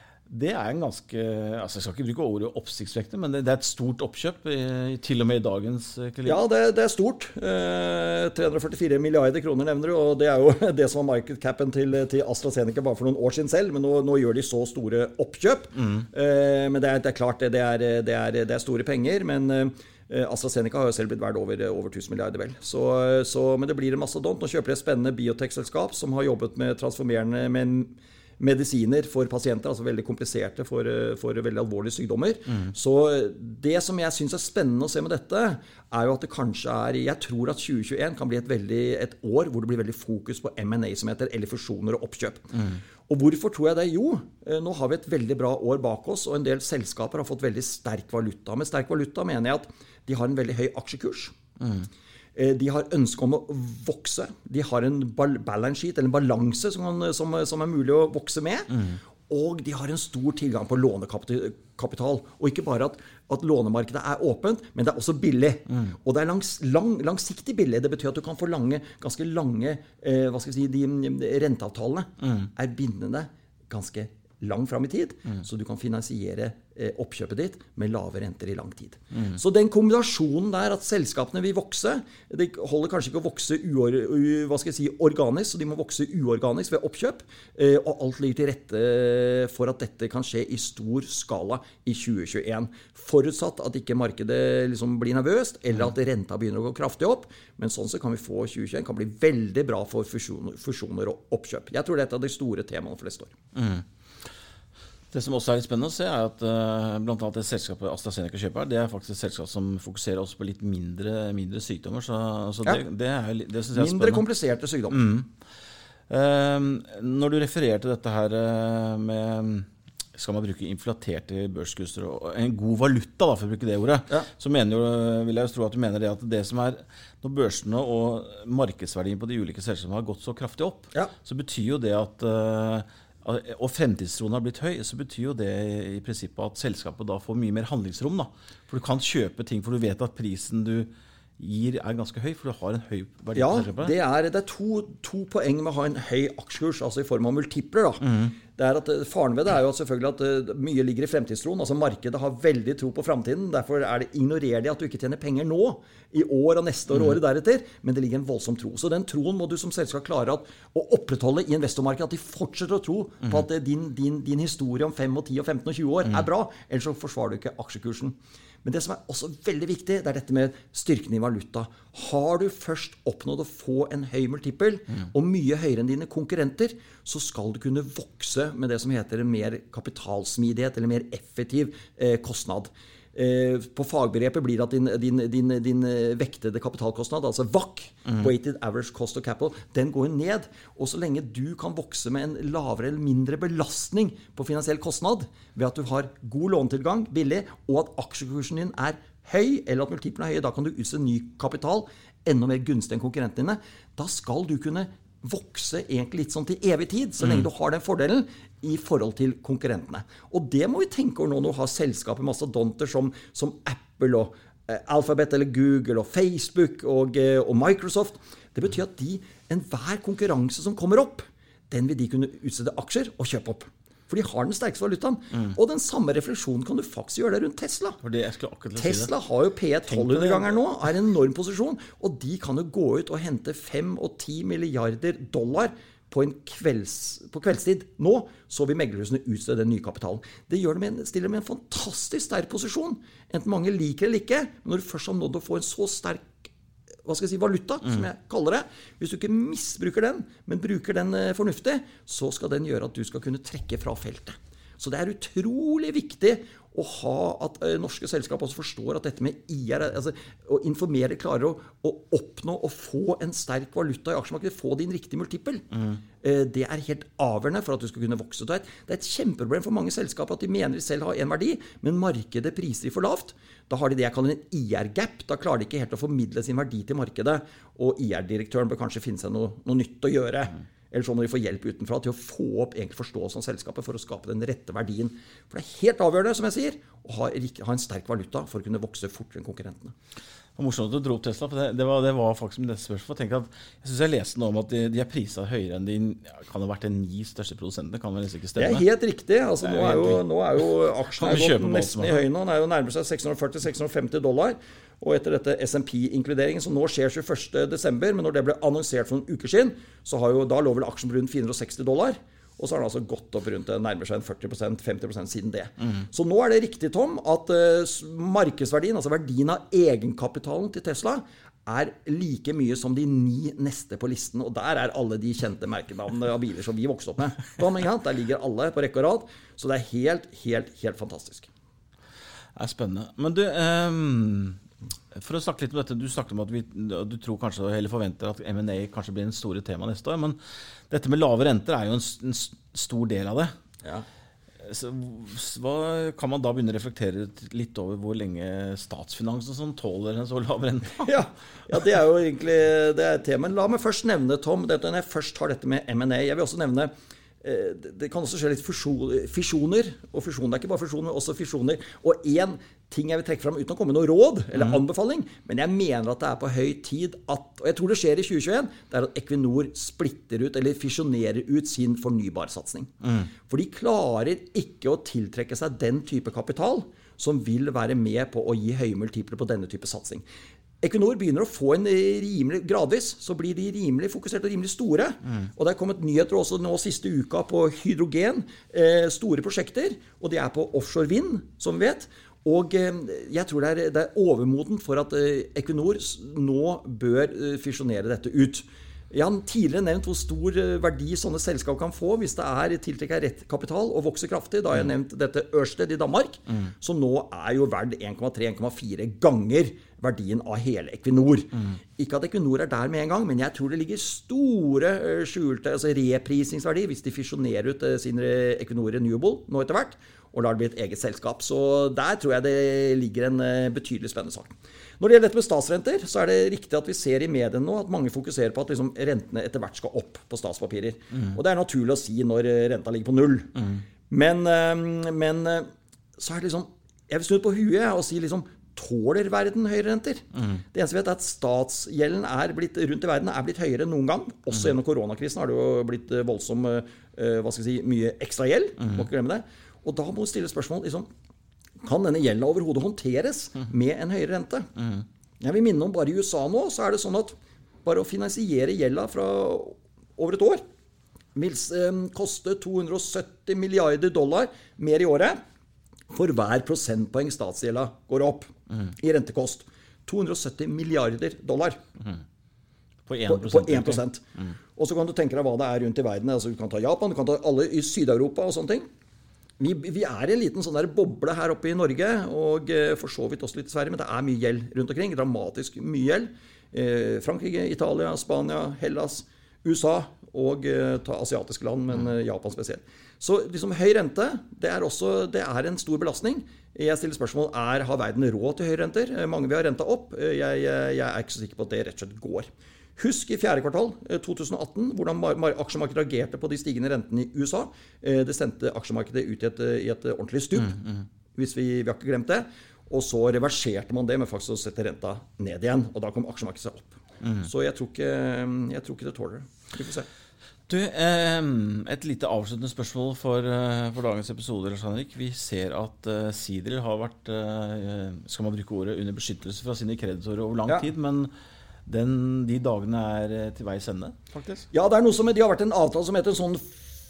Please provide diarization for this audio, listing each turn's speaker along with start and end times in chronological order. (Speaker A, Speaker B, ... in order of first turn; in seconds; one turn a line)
Speaker A: 0.3-6.4
Speaker B: 6.3-42.6
Speaker B: 43.1-51.4
Speaker A: 51.6-51.9
Speaker B: 52.4-58.7
Speaker B: 59.3-103.3
Speaker A: 103.5-103.8
Speaker A: 105.1-114.2
Speaker B: 113.7-115.0
Speaker A: 114.9-115.3
Speaker A: 116.1-143.9
Speaker B: 143.3-228.0
Speaker A: 148.0-148.3
Speaker A: 207.2-207.5
Speaker A: 228.0-229.1
Speaker B: 228.8-246.5
Speaker A: 229.9-230.6
Speaker B: 247.1-265.6
Speaker A: 265.7-266.0
Speaker B: 266.2-289.9
Speaker A: 290.6-298.9
Speaker B: 298.6-331.5
Speaker A: 299.6-300.2
Speaker A: 301.2-302.2
Speaker A: 332.6-334.6
Speaker A: 335.1-340.4
Speaker A: 340.9-343.5
Speaker A: 344.6-351.1
Speaker B: 351.0-356.9
Speaker B: 357.4-372.9
Speaker A: 364.5-364.8
Speaker A: 373.0-373.3
Speaker B: 373.5-380.2
Speaker B: 380.8-433.5
Speaker B: 434.1-451.1
Speaker B: 451.8-454.7
Speaker B: 455.4-460.6
Speaker B: 461.4-465.4
Speaker B: 466.1-471.8
Speaker A: 473.1-474.5
Speaker B: 473.3-474.2
Speaker B: 474.8-478.9
Speaker B: 479.6-510.8
Speaker B: 511.4-520.1
Speaker A: 517.2-517.5
Speaker A: 520.7-531.3
Speaker A: 531.9-534.7
Speaker B: 534.7-536.8